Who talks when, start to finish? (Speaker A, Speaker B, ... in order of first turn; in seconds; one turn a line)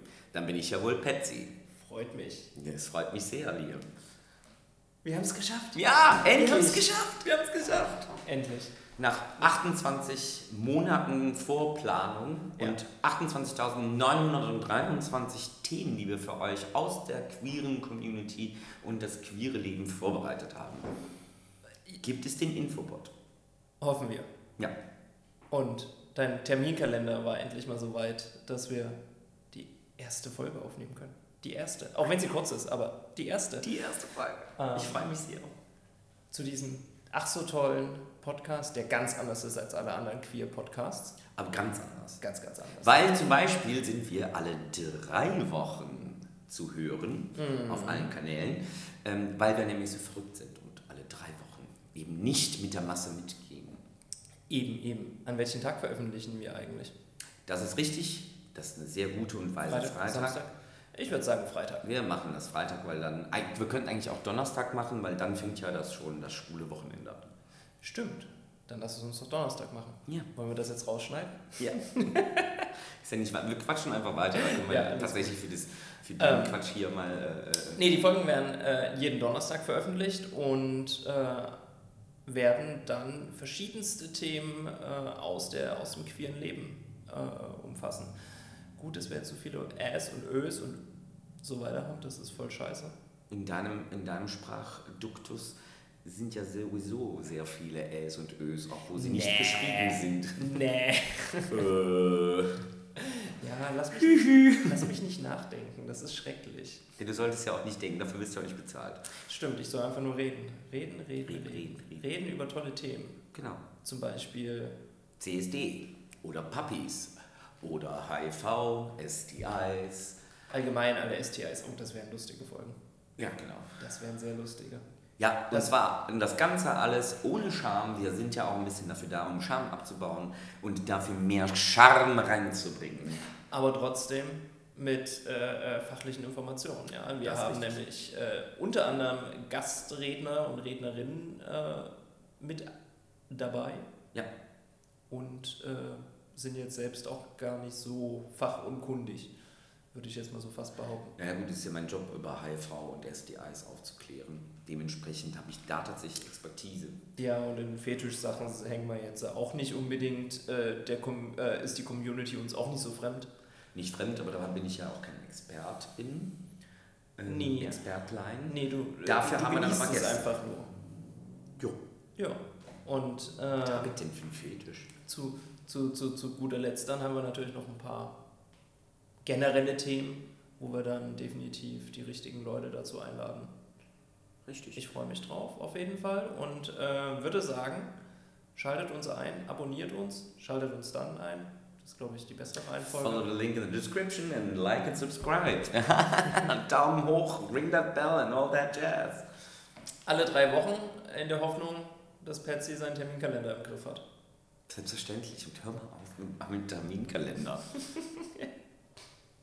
Speaker A: 0.3-1.5
Speaker B: 1.8-2.5
Speaker A: 2.6-3.9
Speaker B: 5.0-8.8
Speaker A: 5.8-8.2
Speaker A: 9.0-20.9
Speaker A: 22.0-23.1
Speaker B: 23.8-24.3
Speaker B: 25.5-29.0
Speaker B: 29.5-33.7
Speaker A: 33.6-35.5
Speaker B: 34.6-35.2
Speaker B: 36.3-41.2
Speaker A: 41.4-42.2
Speaker B: 42.2-43.3
Speaker A: 42.8-53.8
Speaker B: 47.4-48.2
Speaker B: 54.5-56.9
Speaker A: 57.5-60.4
Speaker B: 59.6-61.8
Speaker A: 61.8-67.3
Speaker B: 67.8-72.6
Speaker A: 71.6-71.9
Speaker A: 73.0-77.9
Speaker B: 74.3-75.4
Speaker B: 76.2-76.6
Speaker B: 77.8-81.6
Speaker B: 82.3-88.1
Speaker B: 88.8-90.9
Speaker B: 91.4-92.9
Speaker A: 93.3-100.4
Speaker B: 99.0-101.7
Speaker A: 101.5-102.6
Speaker B: 103.0-106.8
Speaker A: 104.0-104.8
Speaker A: 107.0-109.0
Speaker B: 109.2-113.2
Speaker A: 111.3-112.0
Speaker A: 113.3-113.6
Speaker B: 113.8-114.8
Speaker A: 115.2-120.2
Speaker B: 120.5-122.8
Speaker A: 123.2-123.7
Speaker B: 123.8-124.8
Speaker A: 125.2-133.2
Speaker B: 133.5-142.7
Speaker A: 137.2-137.8
Speaker B: 143.3-143.9
Speaker B: 145.1-149.3
Speaker B: 149.9-151.1
Speaker A: 151.2-157.0
Speaker B: 157.2-163.3
Speaker A: 163.8-166.4
Speaker A: 167.2-170.3
Speaker B: 167.2-167.8
Speaker B: 168.5-170.7
Speaker B: 172.2-174.0
Speaker A: 173.7-174.9
Speaker B: 175.1-178.2
Speaker B: 179.2-183.5
Speaker A: 184.5-184.8
Speaker B: 184.8-187.9
Speaker B: 188.6-193.3
Speaker A: 192.9-199.2
Speaker B: 200.1-204.0
Speaker A: 204.7-207.7
Speaker B: 208.0-208.4